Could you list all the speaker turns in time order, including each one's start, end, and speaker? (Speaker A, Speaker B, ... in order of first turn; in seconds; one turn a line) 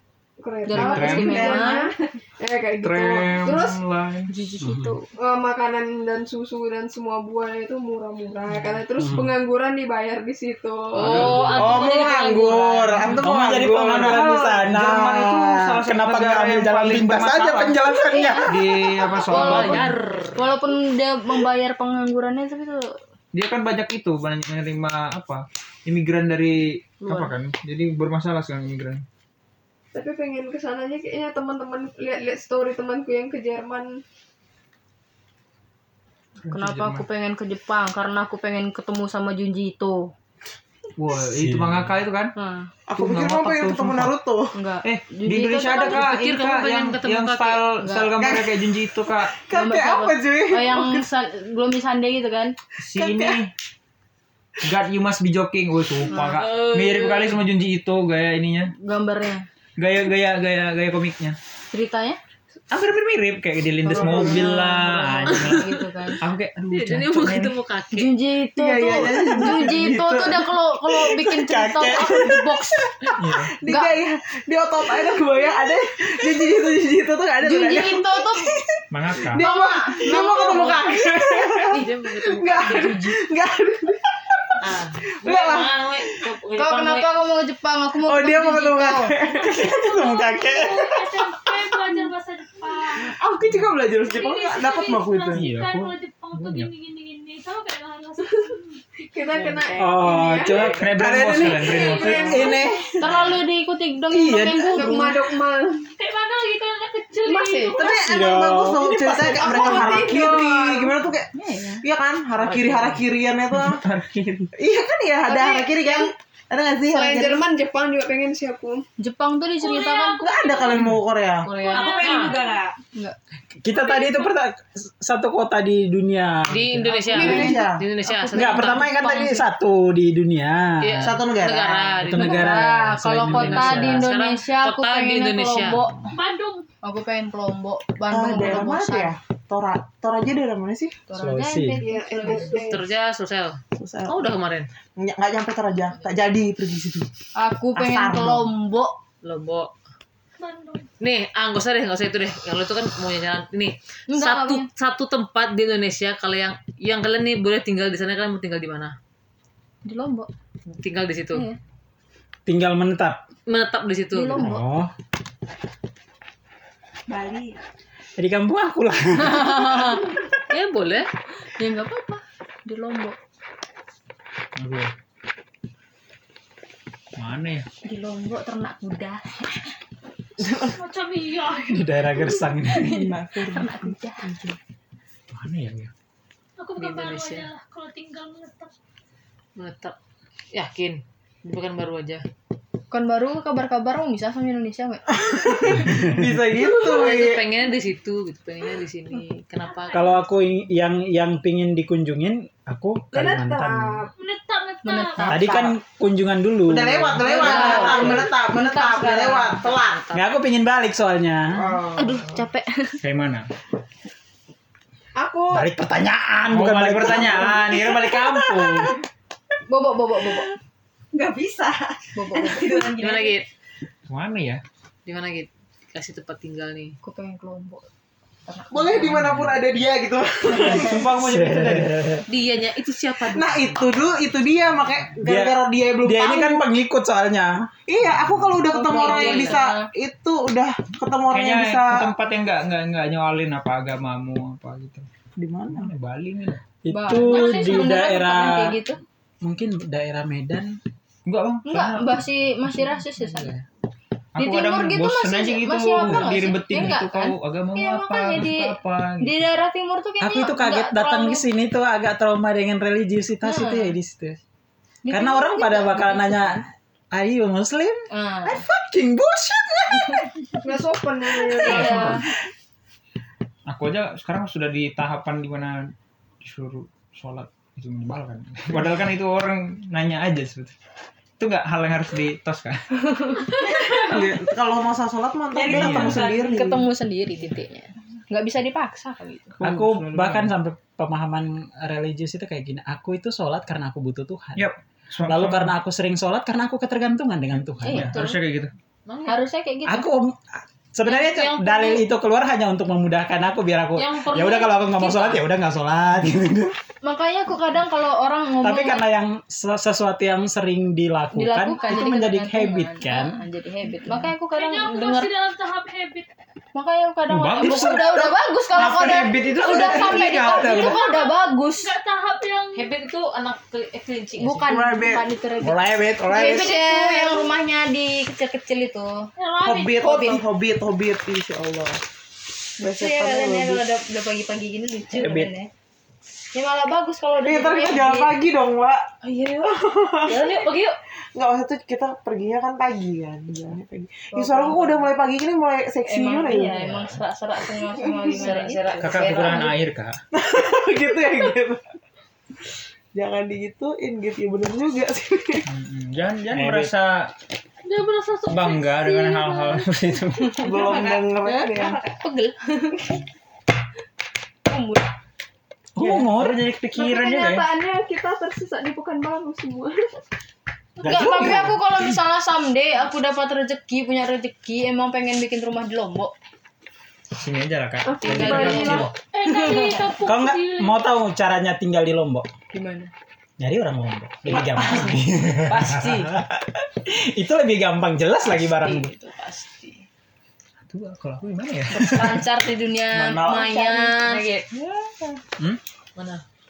Speaker A: 0.4-3.8
Speaker B: 0.7-1.9
Speaker C: 0.7-1.6
Speaker C: 2.8-4.3
Speaker B: 4.3-5.1
Speaker D: 4.6-5.0
Speaker A: 5.2-11.4
Speaker D: 9.0-9.3
Speaker C: 10.9-11.8
Speaker E: 11.0-13.2
Speaker F: 11.5-14.3
Speaker B: 12.2-12.6
Speaker D: 13.2-18.5
Speaker C: 13.9-17.8
Speaker B: 18.1-18.5
Speaker C: 18.4-19.9
Speaker E: 19.2-20.5
Speaker B: 19.2-22.9
Speaker C: 23.3-29.0
Speaker B: 27.0-27.3
Speaker A: 29.9-34.0
Speaker C: 36.4-37.0
Speaker B: 36.5-40.1
Speaker C: 41.0-42.3
Speaker D: 41.4-41.9
Speaker B: 42.4-42.7
Speaker F: 42.9-44.6
Speaker C: 43.0-44.1
Speaker B: 44.5-46.2
Speaker C: 44.8-49.4
Speaker E: 45.9-47.6
Speaker B: 47.8-48.2
Speaker F: 48.2-48.6
Speaker F: 49.3-51.0
Speaker B: 49.5-52.6
Speaker C: 52.8-53.5
Speaker F: 53.0-53.4
Speaker C: 54.6-58.7
Speaker B: 56.1-56.4
Speaker E: 56.2-57.4
Speaker B: 58.8-59.5
Speaker C: 59.8-61.4
Speaker B: 61.7-62.2
Speaker C: 62.7-67.6
Speaker B: 63.9-66.2
Speaker F: 63.9-64.5
Speaker E: 66.7-68.1
Speaker B: 68.0-73.0
Speaker F: 68.5-70.5
Speaker D: 71.4-72.4
Speaker C: 73.2-73.5
Speaker F: 73.3-84.6
Speaker B: 73.7-73.9
Speaker B: 77.4-78.5
Speaker C: 78.9-79.4
Speaker B: 79.3-81.2
Speaker E: 81.6-83.1
Speaker B: 82.6-83.0
Speaker E: 84.6-87.1
Speaker F: 85.2-85.7
Speaker B: 86.6-89.2
Speaker F: 88.0-89.5
Speaker G: 89.2-93.2
Speaker D: 89.4-91.2
Speaker F: 93.0-95.5
Speaker G: 93.9-98.7
Speaker C: 95.3-96.7
Speaker A: 99.0-100.7
Speaker D: 99.8-101.6
Speaker C: 100.6-102.5
Speaker F: 100.9-103.2
Speaker A: 101.7-103.1
Speaker B: 102.1-102.5
Speaker D: 102.2-102.6
Speaker B: 103.0-105.2
Speaker D: 104.1-105.0
Speaker A: 104.5-105.9
Speaker G: 106.0-108.0
Speaker A: 107.2-107.8
Speaker F: 107.7-111.3
Speaker D: 107.9-109.8
Speaker A: 109.2-111.0
Speaker B: 111.3-111.8
Speaker F: 111.8-113.8
Speaker E: 112.4-113.0
Speaker C: 113.5-114.5
Speaker F: 114.5-117.5
Speaker A: 115.3-116.1
Speaker A: 116.9-118.8
Speaker B: 119.0-120.3
Speaker G: 119.6-120.9
Speaker F: 120.2-121.5
Speaker E: 121.5-122.4
Speaker B: 121.5-121.7
Speaker G: 121.5-122.5
Speaker H: 121.6-122.8
Speaker D: 123.6-127.2
Speaker G: 123.7-124.3
Speaker E: 126.5-129.4
Speaker B: 126.9-129.2
Speaker F: 127.1-127.8
Speaker D: 128.3-131.1
Speaker E: 130.8-132.7
Speaker F: 131.0-132.0
Speaker D: 132.0-134.1
Speaker B: 132.1-136.1
Speaker E: 133.3-135.9
Speaker G: 136.1-136.7
Speaker B: 136.8-139.1
Speaker F: 138.1-141.0
Speaker B: 141.1-142.7
Speaker D: 141.1-141.8
Speaker A: 141.8-142.8
Speaker E: 142.4-144.7
Speaker F: 143.8-144.3
Speaker F: 145.0-147.1
Speaker B: 147.4-148.9
Speaker F: 147.8-148.5
Speaker E: 149.2-149.7
Speaker G: 150.4-150.9
Speaker E: 151.0-158.9
Speaker B: 154.1-154.7
Speaker B: 159.8-160.3
Speaker E: 160.7-161.5
Speaker D: 162.5-163.2
Speaker E: 163.5-164.4
Speaker B: 164.1-164.7
Speaker D: 164.3-164.9
Speaker H: 167.1-167.6
Speaker D: 168.2-169.6
Speaker E: 169.3-171.1
Speaker B: 171.4-173.2
Speaker C: 174.6-174.9
Speaker C: 177.2-177.7
Speaker B: 177.8-179.7
Speaker F: 180.4-180.8
Speaker G: 180.6-182.6
Speaker D: 181.7-183.0
Speaker B: 182.7-184.3
Speaker F: 182.8-184.6
Speaker C: 185.3-185.9
Speaker G: 186.6-188.7
Speaker E: 186.8-187.5
Speaker E: 189.6-189.9
Speaker E: 190.5-192.2
Speaker B: 192.9-195.8
Speaker F: 195.1-197.4
Speaker D: 195.8-196.2
Speaker E: 196.6-200.2
Speaker G: 199.7-200.2
Speaker D: 199.9-204.0
Speaker A: 203.1-204.1
Speaker G: 204.2-205.5
Speaker B: 204.8-205.8
Speaker D: 205.2-208.0
Speaker F: 206.7-210.1
Speaker B: 207.2-209.7
Speaker E: 207.6-208.1
Speaker E: 209.1-210.2
Speaker D: 210.1-211.7
Speaker F: 211.5-212.4
Speaker B: 212.0-213.0
Speaker C: 213.0-213.5
Speaker A: 215.2-215.7
Speaker D: 215.5-217.9
Speaker C: 216.5-219.0
Speaker B: 219.7-220.5
Speaker H: 221.1-223.4
Speaker B: 222.2-222.9
Speaker E: 222.9-223.5
Speaker C: 224.1-224.6
Speaker E: 225.1-227.0
Speaker B: 227.0-227.8
Speaker B: 228.5-229.2
Speaker F: 228.7-231.1
Speaker C: 229.0-229.6
Speaker C: 230.6-232.2
Speaker D: 230.7-232.2
Speaker E: 232.3-233.9
Speaker F: 233.3-236.6
Speaker D: 235.2-237.5
Speaker F: 237.9-242.1
Speaker C: 238.1-238.7
Speaker B: 238.7-239.9
Speaker E: 238.8-239.7
Speaker C: 241.3-245.1
Speaker D: 245.4-245.7
Speaker C: 245.7-246.6
Speaker D: 246.8-248.8
Speaker B: 246.9-249.0
Speaker G: 247.3-247.8
Speaker D: 249.4-250.8
Speaker C: 251.3-253.7
Speaker B: 251.7-253.6
Speaker C: 254.3-259.4
Speaker B: 254.4-261.5
Speaker D: 260.2-264.4
Speaker B: 263.4-263.9
Speaker B: 265.1-266.6
Speaker D: 265.1-270.3
Speaker B: 268.1-268.6
Speaker A: 270.6-272.2
Speaker B: 271.6-272.2
Speaker C: 271.7-272.2
Speaker C: 273.7-280.7
Speaker C: 281.4-282.8
Speaker B: 283.0-284.1
Speaker F: 283.9-286.8
Speaker H: 285.5-286.6
Speaker C: 285.7-286.2
Speaker B: 286.2-289.6
Speaker C: 289.6-290.6
Speaker D: 289.6-294.7
Speaker C: 294.6-295.8
Speaker D: 295.3-298.2
Speaker B: 297.8-298.4
Speaker C: 297.9-298.7
Speaker E: 299.1-299.4
Speaker B: 299.3-300.1
Speaker D: 299.9-306.8
Speaker E: 301.1-302.1
Speaker E: 304.0-305.4
Speaker B: 307.0-309.1
Speaker D: 308.6-313.4
Speaker B: 311.3-315.3
Speaker G: 314.5-316.3
Speaker B: 316.8-321.9
Speaker C: 317.3-318.2
Speaker F: 317.6-318.0
Speaker C: 318.8-320.9
Speaker F: 319.3-320.3
Speaker G: 319.6-322.9
Speaker E: 322.8-324.7
Speaker B: 324.4-329.3
Speaker F: 324.6-325.3
Speaker D: 325.6-326.8
Speaker F: 326.3-327.4
Speaker G: 329.4-330.3
Speaker F: 329.6-332.0
Speaker B: 330.0-330.4
Speaker F: 332.8-333.8
Speaker B: 332.8-335.7
Speaker C: 335.2-335.5
Speaker B: 336.5-338.4
Speaker F: 337.4-340.6
Speaker B: 339.2-339.9
Speaker E: 340.3-341.0
Speaker F: 341.4-346.9
Speaker B: 344.3-345.1
Speaker B: 346.1-349.7
Speaker C: 346.8-347.2
Speaker E: 348.1-349.7
Speaker C: 349.0-350.2
Speaker F: 350.3-351.9
Speaker F: 353.1-355.7
Speaker C: 355.7-357.3
Speaker D: 356.5-356.9
Speaker G: 357.9-359.9
Speaker C: 358.5-360.8
Speaker F: 360.6-362.0
Speaker H: 360.8-362.2
Speaker B: 360.9-361.2
Speaker B: 362.2-363.2
Speaker B: 364.7-365.1
Speaker D: 366.0-366.6
Speaker C: 366.0-367.7
Speaker A: 366.9-370.2
Speaker D: 371.0-371.7
Speaker B: 371.0-376.3
Speaker C: 377.4-379.1
Speaker A: 378.1-379.1
Speaker B: 378.2-380.0
Speaker D: 378.7-379.1
Speaker G: 379.1-381.1
Speaker D: 380.2-382.5
Speaker B: 382.7-383.1
Speaker D: 383.6-389.1
Speaker E: 384.8-385.1
Speaker E: 385.7-386.2
Speaker B: 388.8-390.0
Speaker C: 390.9-392.5
Speaker B: 391.9-394.4
Speaker F: 393.3-393.7
Speaker E: 393.8-394.8
Speaker E: 396.2-396.4